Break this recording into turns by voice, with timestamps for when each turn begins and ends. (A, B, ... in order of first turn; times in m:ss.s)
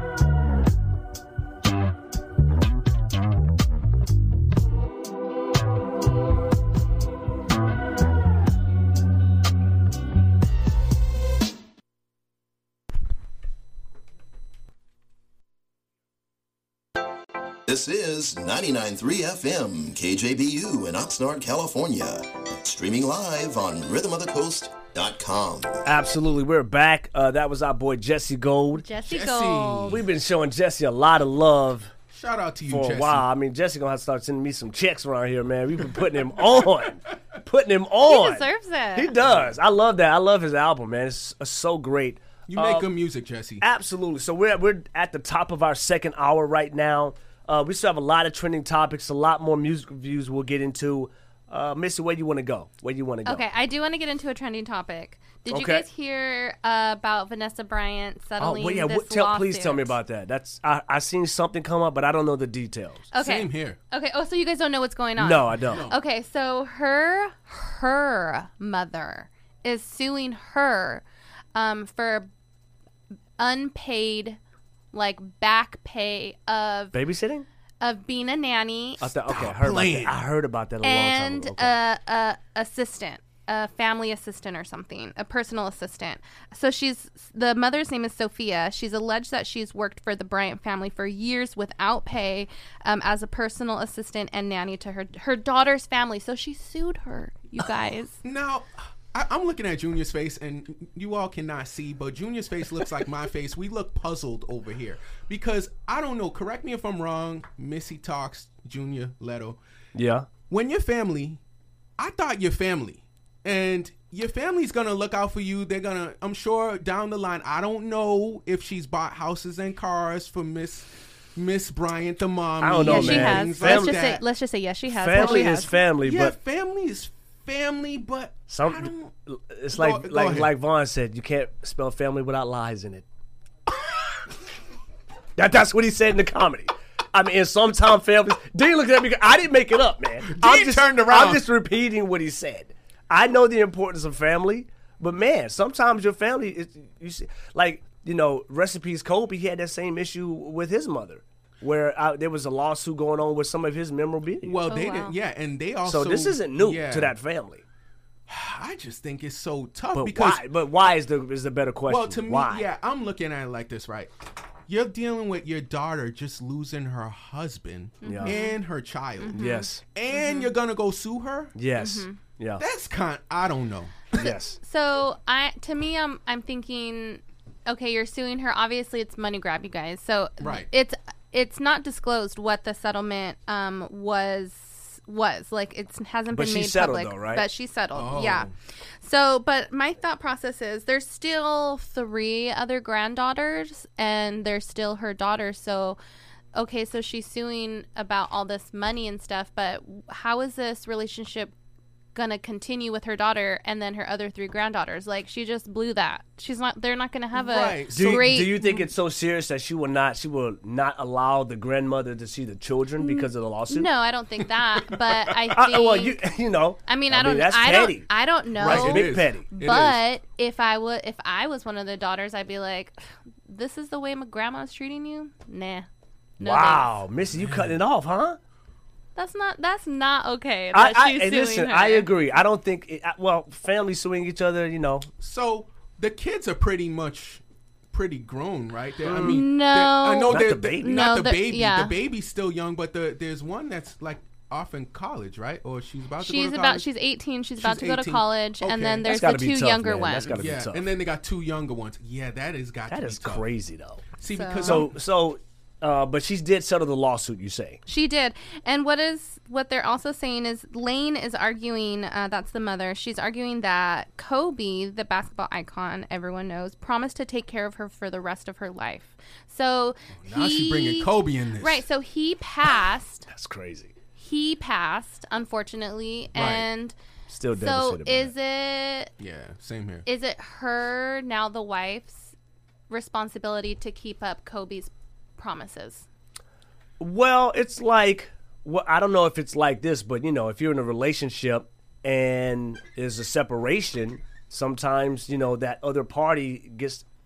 0:17.7-0:25.8 A
0:25.8-0:28.8 B
0:28.7-0:30.0 C
0:29.0-0:30.0 D
0:29.9-0:31.9 B
0:32.1-0:33.3 D
0:32.7-0:42.9 B
0:38.0-0:39.1 C
0:42.5-0:43.6 D
0:43.6-0:53.4 B
0:53.3-1:00.0 C
0:55.5-0:55.8 B
0:58.4-1:03.1 B
1:03.1-1:12.3 C
1:03.2-1:03.8 D
1:05.2-1:05.9 B
1:05.7-1:06.0 D
1:13.4-1:14.4 C
1:14.9-1:17.0 C
1:16.9-1:17.5 B
1:17.8-1:19.1 C
1:19.0-1:21.8 B
1:19.2-1:20.2 D
1:20.8-1:38.2 C
1:38.2-1:49.6 D
1:50.0-1:50.3 B
1:50.5-1:51.4 D
1:52.0-2:04.2 D
2:02.6-2:04.0 B
2:02.8-2:05.8 C
2:04.9-2:06.4 B
2:05.1-2:09.1 D
2:08.5-2:13.1 B
2:09.7-2:10.5 D
2:15.4-2:34.6 B
2:20.2-2:21.4 D
2:34.4-2:37.2 D
2:34.7-2:35.2 C
2:35.9-2:37.6 B
2:38.3-2:40.4 D
2:40.0-2:42.7 B
2:41.9-2:44.1 D
2:44.7-2:51.6 D
2:48.0-2:48.6 C
2:48.0-2:48.4 B
2:49.2-2:50.5 C
2:49.3-2:49.8 B
2:51.6-2:52.6 B
2:51.8-2:52.2 C
2:52.6-2:54.1 D
2:54.1-2:54.6 B
2:54.2-3:08.5 C
3:00.4-3:00.7 D
3:06.3-3:07.4 B
3:07.9-3:08.5 D
3:09.0-3:16.0 C
3:16.6-3:21.5 C
3:22.2-3:28.9 C
3:27.4-3:28.6 D
3:27.9-3:33.9 B
3:33.0-3:36.2 C
3:35.5-3:39.5 B
3:36.9-3:45.9 C
3:38.6-3:40.0 D
3:46.4-3:47.0 C
3:46.4-3:48.4 B
3:47.3-3:47.8 D
3:49.2-3:52.1 C
3:50.7-3:55.1 B
3:55.2-4:06.9 D
3:59.0-3:59.4 B
3:59.2-4:02.0 C
4:00.3-4:01.0 B
4:06.2-4:10.4 C
4:07.6-4:09.1 D
4:09.1-4:10.9 B
4:10.3-4:13.5 D
4:12.9-4:14.0 B
4:14.2-4:14.9 D
4:14.3-4:14.9 C
4:14.6-4:17.8 B
4:17.9-4:33.3 C
4:30.2-4:31.8 D
4:33.3-4:33.9 B
4:34.2-4:37.0 C
4:36.4-4:36.7 D
4:37.3-4:38.3 B
4:37.5-4:39.1 C
4:39.2-4:40.1 D
4:40.1-4:42.3 C
4:42.9-4:46.1 C
4:47.0-4:57.0 B